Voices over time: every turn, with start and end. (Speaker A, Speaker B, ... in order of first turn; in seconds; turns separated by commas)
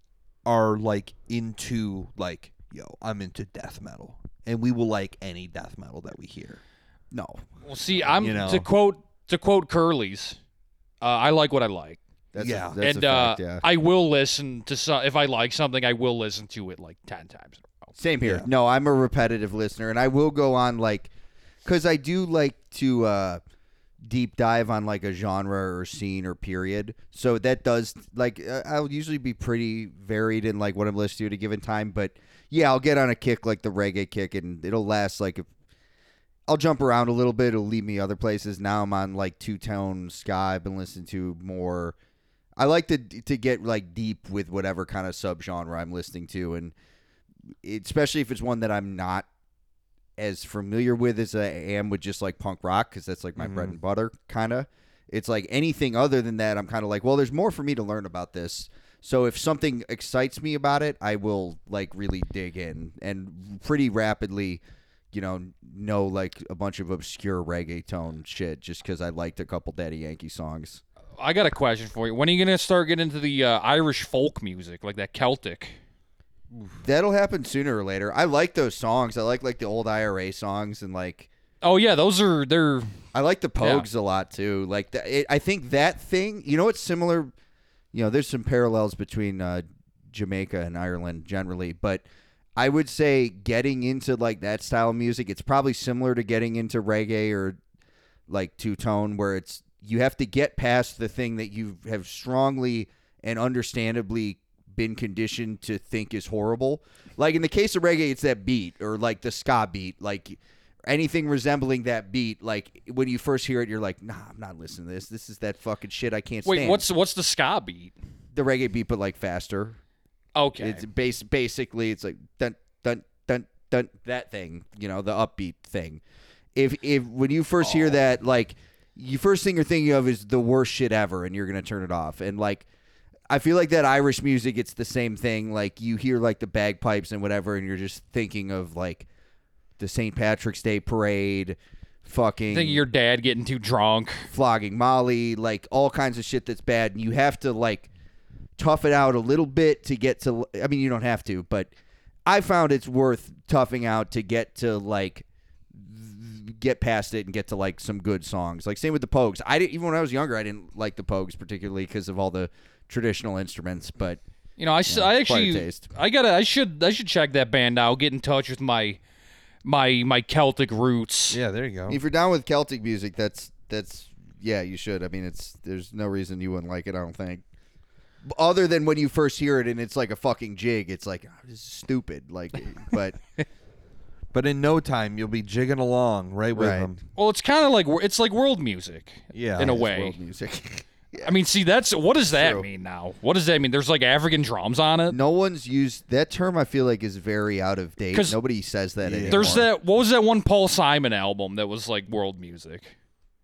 Speaker A: 0.5-6.6, Speaker B: 7.1-7.5, Speaker C: 7.6-10.4, Speaker A: 8.2-8.7, Speaker C: 11.0-12.0, Speaker B: 12.3-13.6, Speaker A: 12.4-12.8, Speaker C: 12.8-17.9, Speaker B: 18.0-21.1, Speaker B: 21.6-23.4, Speaker B: 24.0-35.5, Speaker B: 36.5-42.0, Speaker B: 42.6-46.7, Speaker B: 47.6-49.3, Speaker B: 50.2-64.6, Speaker A: 53.4-53.8, Speaker B: 65.1-70.8, Speaker C: 71.2-75.8, Speaker B: 76.8-81.3, Speaker C: 81.6-82.9, Speaker B: 83.1-87.3, Speaker C: 83.6-83.9, Speaker B: 87.9-92.0, Speaker B: 92.6-97.6, Speaker B: 98.3-116.8, Speaker C: 116.5-117.9, Speaker B: 118.3-119.8, Speaker C: 120.4-120.8, Speaker B: 120.6-126.0, Speaker B: 126.6-132.7, Speaker B: 133.3-139.1, Speaker B: 139.8-142.8, Speaker C: 142.5-144.3, Speaker B: 144.3-147.9, Speaker B: 148.6-151.7, Speaker B: 152.3-164.2, Speaker C: 164.6-169.0, Speaker B: 164.9-165.9, Speaker C: 169.7-171.4, Speaker A: 171.3-172.0, Speaker B: 171.9-177.4, Speaker B: 178.2-183.2, Speaker A: 184.3-187.0, Speaker B: 186.5-186.9, Speaker C: 187.2-190.2, Speaker A: 189.3-189.8, Speaker B: 189.6-191.3, Speaker C: 191.2-195.2, Speaker B: 192.3-192.7, Speaker B: 195.1-199.7, Speaker C: 198.1-198.4, Speaker A: 199.0-199.7, Speaker C: 199.3-202.9